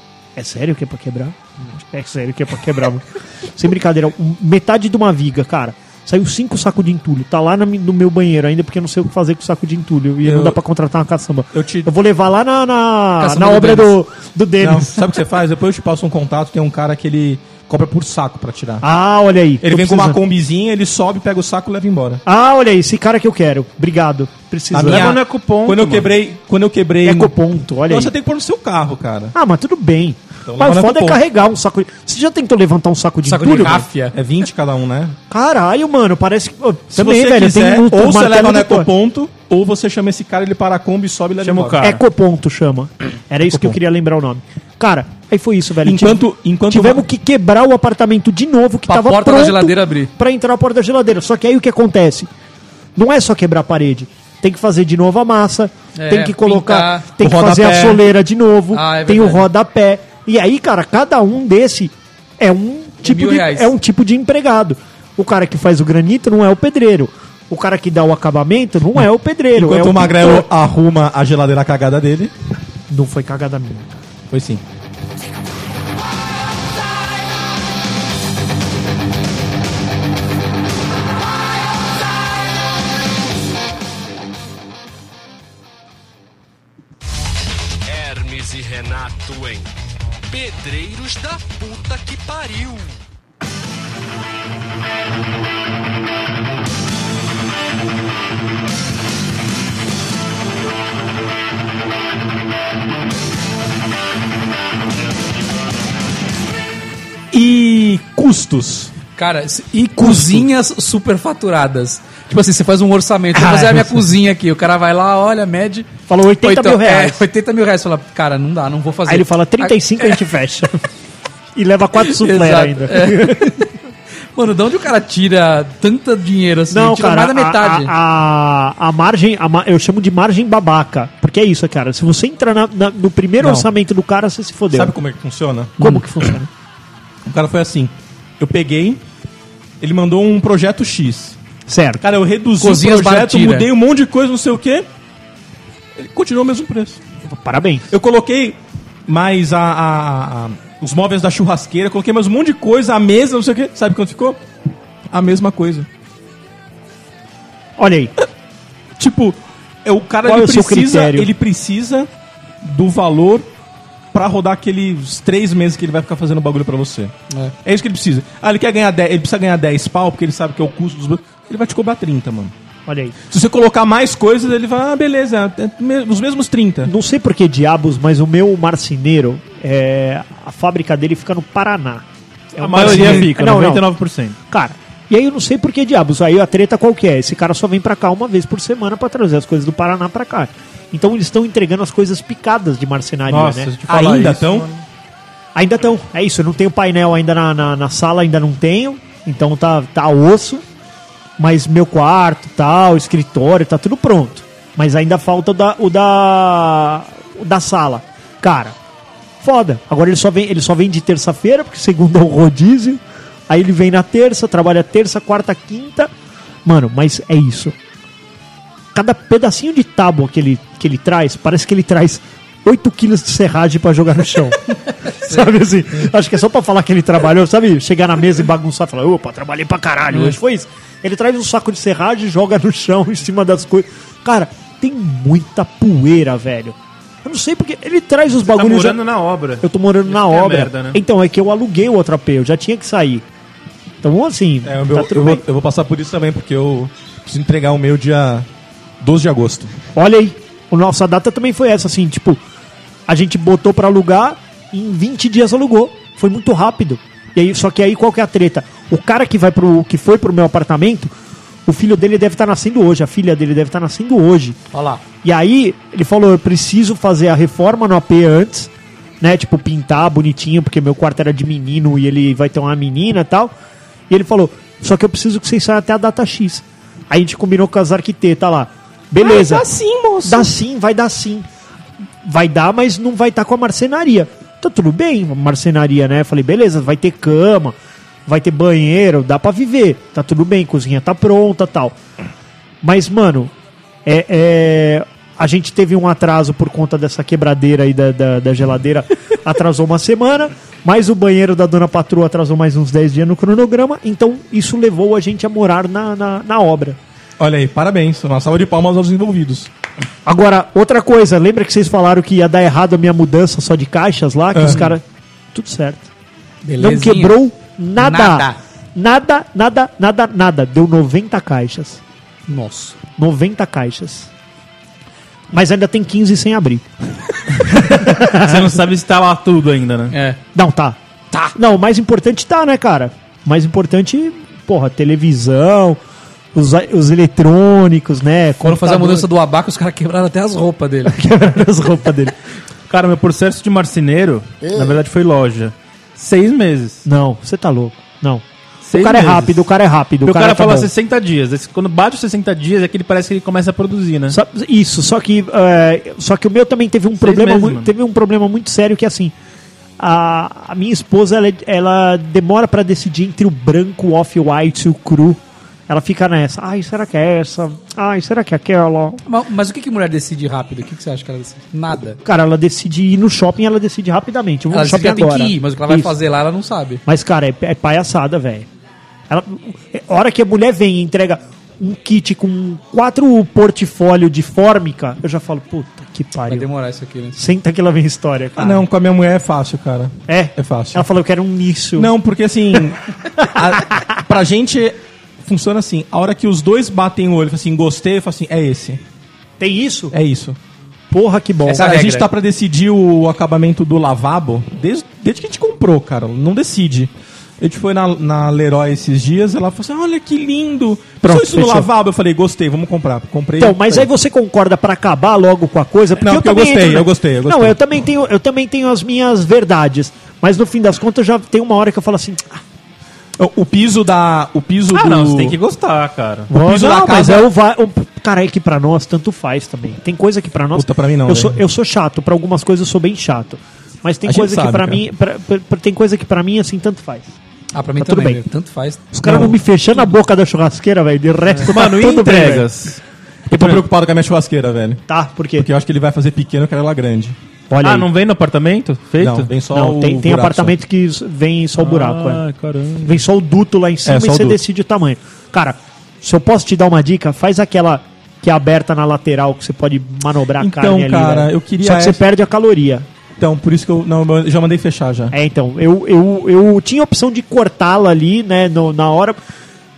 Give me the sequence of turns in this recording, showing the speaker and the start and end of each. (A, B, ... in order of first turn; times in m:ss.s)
0:00.4-0:15.1 A
0:10.2-0:10.6 B
0:11.5-0:11.9 B
0:13.2-0:13.9 C
0:14.6-0:18.9 B
0:18.8-0:20.2 A
0:19.6-0:22.2 B
0:22.2-0:25.2 A
0:24.7-0:27.3 B
0:24.8-0:26.1 D
0:27.0-0:28.1 A
0:27.9-0:29.4 B
0:29.3-0:33.8 A
0:30.5-0:31.2 B
0:33.2-0:34.2 C
0:34.1-0:35.2 B
0:35.3-0:38.9 A
0:36.9-0:41.9 B
0:41.4-0:42.0 D
0:41.8-0:52.3 A
0:45.8-0:47.0 B
0:48.9-0:50.1 C
0:53.0-1:10.5 A
0:56.0-0:57.1 C
0:57.2-0:58.0 B
0:58.7-0:59.5 C
1:03.0-1:03.7 C
1:09.5-1:12.3 B
1:12.9-1:14.0 A
1:14.3-1:14.6 B
1:27.9-1:29.7 E
1:30.3-1:32.9 E
1:47.3-1:48.9 B
1:49.2-1:55.9 C
1:50.0-1:50.4 B
1:53.3-1:54.0 A
1:56.1-1:57.2 A
1:56.4-2:00.2 C
1:59.1-2:00.8 A
2:01.6-2:03.7 A
2:02.0-2:03.7 C
2:04.4-2:07.9 C
2:06.7-2:14.9 A
2:13.4-2:13.7 B
2:14.7-2:15.9 B
2:15.8-2:16.5 A
2:17.3-2:19.0 B
2:19.8-2:21.4 B
2:21.7-2:22.0 A
2:22.0-2:24.9 B
2:22.6-2:23.7 C
2:26.0-2:27.0 B
2:27.2-2:27.9 A
2:27.9-2:34.4 B
2:35.1-2:35.9 B
2:37.8-2:38.1 A
2:39.0-2:42.1 B
2:40.2-2:41.3 A
2:42.6-2:43.5 B
2:44.1-2:47.1 B
2:47.6-2:52.5 B
2:52.9-2:53.2 A
2:53.3-2:56.9 B
2:56.8-3:03.9 A
3:02.6-3:04.4 D
3:02.8-3:03.3 B
3:04.5-3:13.7 A
3:13.3-3:14.7 D
3:13.9-3:14.7 B
3:15.6-3:20.6 A
3:21.4-3:28.8 A
3:29.4-3:36.1 A
3:36.6-3:37.8 A
3:38.9-3:59.0 A
3:45.2-3:45.5 C
3:58.5-4:01.0 D
3:59.6-4:03.2 A
4:04.0-4:05.4 A
4:04.6-4:08.5 B
4:09.0-4:09.7 B
4:10.0-4:12.4 A
4:13.1-4:21.1 A
4:21.7-4:24.6 A
4:24.7-4:25.0 C
4:25.2-4:33.5 A
4:34.1-4:39.7 A
4:39.2-4:40.5 B
4:40.2-4:41.5 A
4:42.2-4:52.0 A
4:52.8-4:53.5 A
4:54.0-5:07.0 A
5:07.4-5:09.7 B
5:10.3-5:16.1 A
5:14.5-5:14.9 B
5:16.6-5:17.4 C
5:16.8-5:22.0 A
5:18.0-5:18.6 C
5:22.5-5:23.0 C
5:23.2-5:24.3 A
5:25.5-5:28.8 A
5:28.3-5:30.2 D
5:30.1-5:30.4 C
5:30.5-5:31.0 A
5:31.6-5:36.0 A
5:36.5-5:39.3 A
5:38.6-5:41.2 C
5:41.1-5:42.3 A
5:42.9-5:47.0 D
5:47.0-5:50.9 A
5:48.8-5:49.6 D
5:50.2-5:54.4 D
5:54.3-5:59.3 A
5:57.2-5:57.9 D
6:00.0-6:09.2 A
6:09.2-6:12.2 C
6:12.2-6:16.2 A
6:14.7-6:17.0 C
6:17.1-6:18.7 A
6:19.3-6:26.7 A
6:26.5-6:27.4 C
6:27.4-6:28.9 A
6:28.6-6:31.1 B
6:30.3-6:32.1 A
6:32.0-6:39.0 B
6:33.4-6:34.1 A
6:39.6-6:40.1 A
6:40.1-6:40.6 B
6:41.1-6:42.0 A
6:41.6-6:42.3 C
6:41.7-6:54.1 B
6:51.2-6:51.9 A
6:53.6-7:02.6 A
6:56.2-6:57.8 B
7:03.4-7:05.6 B
7:04.9-7:06.5 D
7:06.5-7:17.3 A
7:06.6-7:07.5 B
7:10.7-7:11.6 B
7:14.2-7:15.0 B
7:17.7-7:19.4 C
7:18.0-7:18.4 A
7:19.1-7:22.7 A
7:19.2-7:19.5 B
7:21.7-7:23.0 D
7:23.5-7:25.0 B
7:23.5-7:23.8 D
7:25.1-7:25.7 A
7:25.6-7:27.4 B
7:27.7-7:28.1 A
7:27.8-7:29.5 D
7:29.2-7:30.7 B
7:29.7-7:32.4 A
7:31.8-7:33.2 D
7:33.0-7:43.1 A
7:34.1-7:34.6 B
7:40.6-7:42.2 B
7:43.4-7:45.3 B
7:45.3-7:49.4 A